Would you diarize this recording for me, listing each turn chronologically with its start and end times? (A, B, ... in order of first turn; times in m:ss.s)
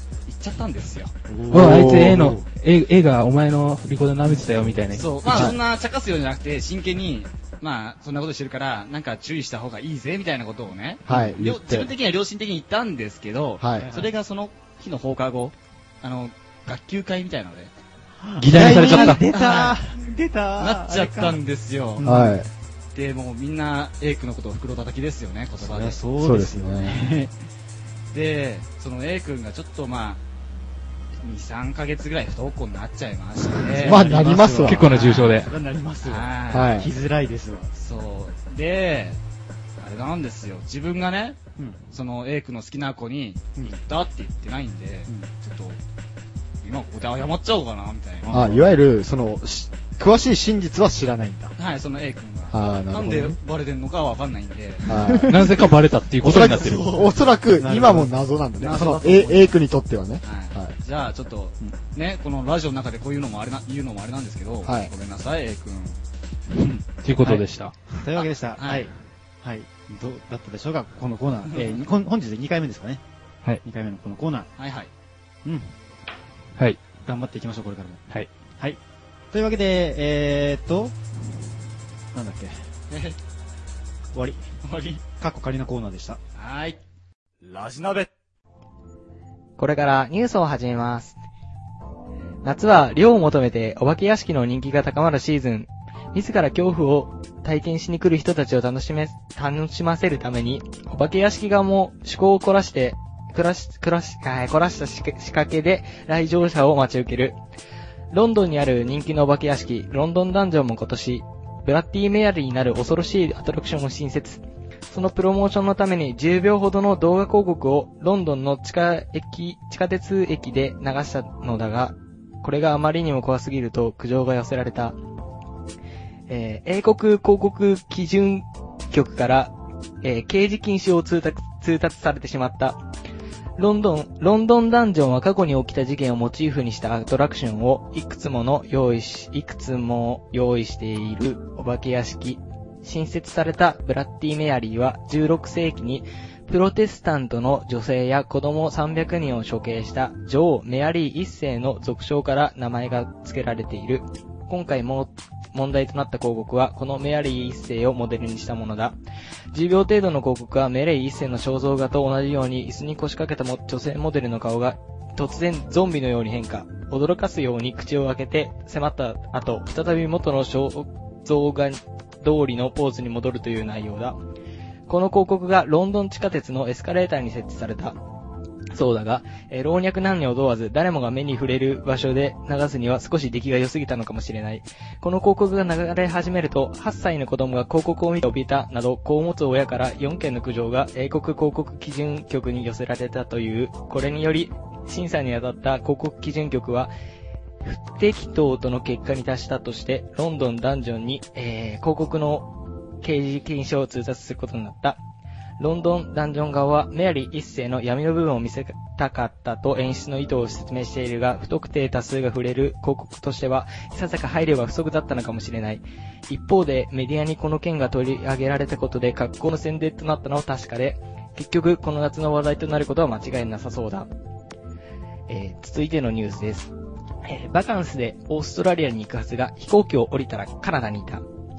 0:00.2-0:01.1 A
0:01.3-0:02.5 B
0:01.5-0:02.4 C
0:01.5-0:05.1 D
0:04.2-0:05.6 B
0:04.9-0:17.7 A
0:05.3-0:05.6 C
0:11.0-0:11.9 C
0:13.6-0:13.9 C
0:13.8-0:14.1 B
0:18.2-0:21.4 B
0:18.4-0:19.2 D
0:18.6-0:19.9 A
0:20.6-0:22.0 A
0:22.0-0:22.4 B
0:22.0-0:22.5 C
0:22.9-0:26.0 A
0:25.6-0:27.3 B
0:26.2-0:27.1 C
0:28.1-0:30.2 A
0:31.2-0:34.1 A
0:33.4-0:37.7 B
0:33.7-0:34.8 C
0:34.6-0:35.5 D
0:34.9-0:35.5 A
0:36.0-0:36.8 A
0:36.5-0:36.9 C
0:37.7-0:39.2 A
0:39.8-0:41.4 A
0:41.9-0:45.8 A
0:46.6-0:48.4 A
0:48.2-0:48.7 B
0:48.3-0:51.5 C
0:51.6-0:55.0 A
0:52.5-0:53.4 C
0:54.8-0:55.4 C
0:54.9-0:55.6 B
0:55.3-0:56.8 D
0:56.2-0:57.1 A
0:56.2-1:00.7 C
0:57.6-0:58.1 B
0:58.6-0:59.6 A
1:00.2-1:06.0 A
1:04.6-1:04.9 C
1:06.5-1:13.0 B
1:07.0-1:07.7 D
1:08.1-1:08.9 A
1:13.6-1:14.5 B
1:14.6-1:14.9 A
1:15.4-1:15.7 B
1:17.0-1:18.0 B
1:19.3-1:21.0 B
1:22.1-1:22.5 B
1:22.9-1:23.2 A
1:24.1-1:24.4 B
1:24.6-1:25.0 A
1:25.0-1:26.2 B
1:26.4-1:26.8 A
1:27.4-1:28.1 A
1:29.6-1:31.2 E
1:32.4-1:47.4 E
1:48.1-2:05.0 E
2:06.3-2:12.8 E
2:13.6-2:39.0 E
2:39.5-2:54.2 E
2:54.9-2:58.0 E
2:58.7-3:16.9 E
3:17.6-3:22.5 E
3:23.0-3:25.0 E
3:25.6-3:44.1 E
3:45.3-3:46.7 E
3:47.2-3:51.2 E